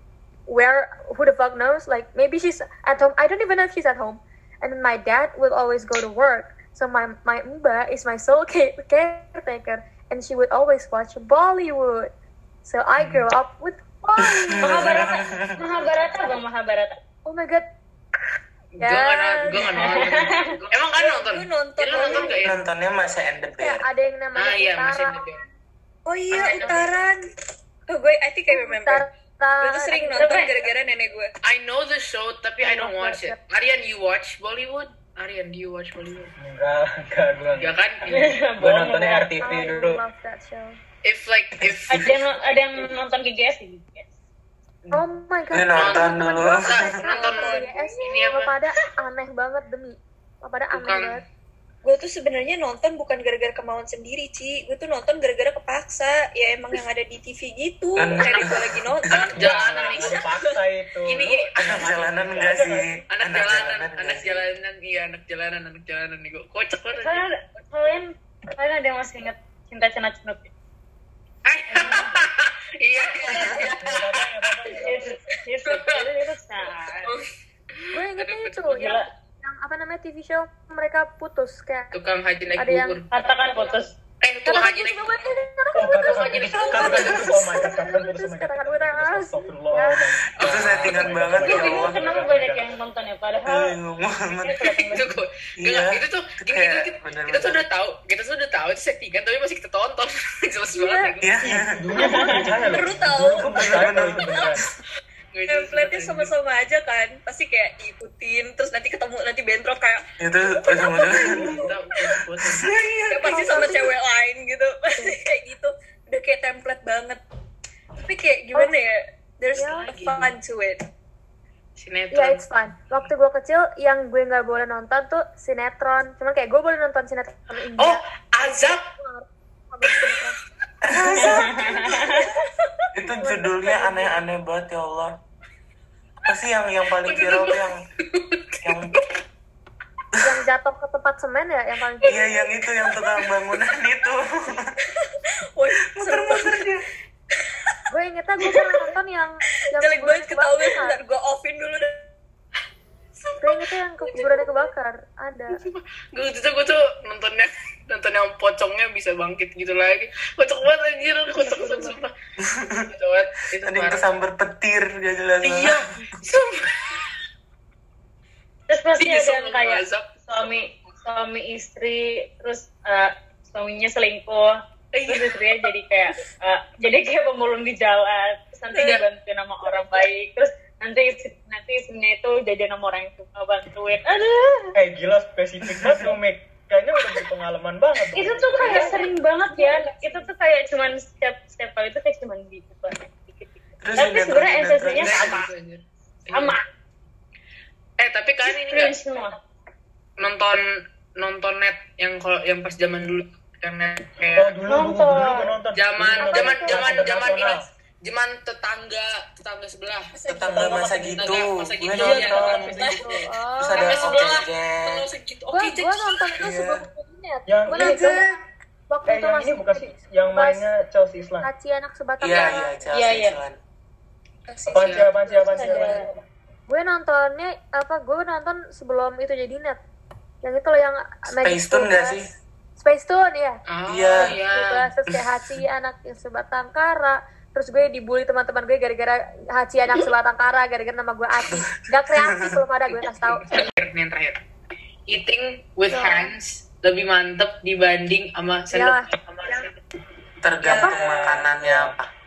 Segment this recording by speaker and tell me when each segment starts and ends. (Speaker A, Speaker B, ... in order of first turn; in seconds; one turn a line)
Speaker A: 0.5-12.1
Speaker A: 12.6-15.2
Speaker B: 14.3-15.6
Speaker C: 14.6-17.0
Speaker A: 17.2-17.7
Speaker D: 18.8-22.6
Speaker A: 18.8-19.7
Speaker C: 19.5-20.6
Speaker E: 20.9-22.4
Speaker A: 22.0-22.4
Speaker B: 22.4-23.8
Speaker A: 23.6-25.4
Speaker D: 24.4-25.4
Speaker E: 26.1-27.3
Speaker A: 26.3-26.9
Speaker D: 26.3-26.9
Speaker E: 27.9-29.1
Speaker A: 28.5-30.5
Speaker E: 29.6-31.3
Speaker C: 30.2-30.6
Speaker D: 31.4-36.3
Speaker A: 32.6-33.4
Speaker F: 36.4-40.0
Speaker D: 37.6-38.3
Speaker C: 38.1-39.3
Speaker A: 39.4-40.8
Speaker D: 41.0-42.2
Speaker B: 41.7-42.0
Speaker C: 41.9-44.1
Speaker A: 44.9-51.2
Speaker B: 45.5-47.0
Speaker D: 45.7-48.5
Speaker E: 47.1-48.0
Speaker D: 50.7-51.2
Speaker E: 51.8-60.5
Speaker B: 58.0-59.3
Speaker D: 58.2-58.5
Speaker D: 59.1-60.3
Speaker F: 59.4-63.0
Speaker D: 61.0-62.0
Speaker B: 61.6-64.4
Speaker D: 63.1-67.2
Speaker C: 66.9-70.5
Speaker D: 71.4-74.2
Speaker C: 71.7-72.2
Speaker F: 73.5-75.0
Speaker C: 74.7-77.1
Speaker D: 75.6-76.1
Speaker D: 77.0-78.9
Speaker A: 77.9-81.9
Speaker C: 78.7-79.1
Speaker D: 81.9-83.1
Speaker A: 82.5-83.0
Speaker C: 83.1-84.0
Speaker D: 84.2-85.3
Speaker A: 84.5-90.0
Speaker F: 85.7-92.7
Speaker D: 85.8-87.5
Speaker D: 90.4-91.1
Speaker B: 90.4-92.2
Speaker C: 91.4-93.8
Speaker B: 93.4-94.7
Speaker C: 94.4-95.2
Speaker D: 94.8-101.4
Speaker B: 95.6-97.6
Speaker A: 100.8-101.1
Speaker B: 101.2-102.0
Speaker F: 101.4-104.6
Speaker C: 102.0-102.7
Speaker E: 102.7-104.6
Speaker B: 103.4-104.5
Speaker D: 105.3-106.3
Speaker E: 105.5-111.7
Speaker B: 110.2-111.7
Speaker D: 111.2-112.7
Speaker B: 112.4-113.7
Speaker E: 113.1-117.2
Speaker A: 113.2-113.9
Speaker E: 118.0-120.8
Speaker A: 119.5-119.9
Speaker D: 119.6-120.3
Speaker D: 121.8-122.4
Speaker A: 122.1-130.4
Speaker D: 127.8-128.9
Speaker B: 130.9-131.8
Speaker C: 131.0-132.3
Speaker B: 132.9-135.2
Speaker B: 136.3-137.8
Speaker D: 137.0-139.0
Speaker B: 138.6-138.9
Speaker A: 140.2-142.2
Speaker B: 142.0-144.7
Speaker E: 144.9-146.7
Speaker B: 145.9-146.8
Speaker A: 147.9-151.0
Speaker E: 148.4-148.7
Speaker E: 149.7-152.1
Speaker D: 153.2-153.6
Speaker A: 153.4-155.6
Speaker D: 155.5-162.1
Speaker A: 161.4-162.0
Speaker B: 162.5-162.9
Speaker D: 162.9-164.1
Speaker B: 163.6-165.8
Speaker D: 165.4-167.0
Speaker C: 168.7-184.8
Speaker D: 169.0-170.1
Speaker D: 174.9-175.4
Speaker E: 178.7-179.0
Speaker D: 178.8-179.0
Speaker F: 184.7-188.9
Speaker B: 185.7-186.1
Speaker C: 188.1-195.5
Speaker A: 188.6-190.3
Speaker B: 193.8-195.4
Speaker D: 194.9-196.6
Speaker C: 196.3-196.6
Speaker D: 198.0-198.9
Speaker C: 198.4-199.4
Speaker D: 200.2-200.6
Speaker D: 201.2-204.6
Speaker F: 204.3-207.7
Speaker C: 204.7-205.5
Speaker D: 205.7-213.0
Speaker A: 206.2-207.6
Speaker E: 210.1-211.3
Speaker B: 210.3-215.1
Speaker F: 210.6-210.8
Speaker F: 212.0-213.0
Speaker A: 212.8-214.2
Speaker D: 213.7-216.2
Speaker A: 215.5-218.2
Speaker B: 216.4-216.8
Speaker F: 217.5-218.2
Speaker A: 218.9-220.7
Speaker F: 219.1-221.5
Speaker A: 221.4-222.8
Speaker B: 222.2-223.6
Speaker C: 222.9-223.4
Speaker E: 224.5-226.0
Speaker F: 224.7-226.0
Speaker D: 224.7-225.1
Speaker C: 225.4-226.1
Speaker A: 226.7-229.8
Speaker A: 230.4-232.2
Speaker B: 231.4-232.3
Speaker A: 232.8-233.6
Speaker D: 233.7-234.8
Speaker B: 233.8-234.4
Speaker A: 234.2-243.5
Speaker B: 242.2-242.6
Speaker D: 243.3-244.4
Speaker D: 245.1-249.8
Speaker A: 245.9-246.3
Speaker A: 248.7-249.1
Speaker B: 250.4-252.1
Speaker D: 250.6-251.1
Speaker A: 250.7-251.0
Speaker F: 250.8-251.9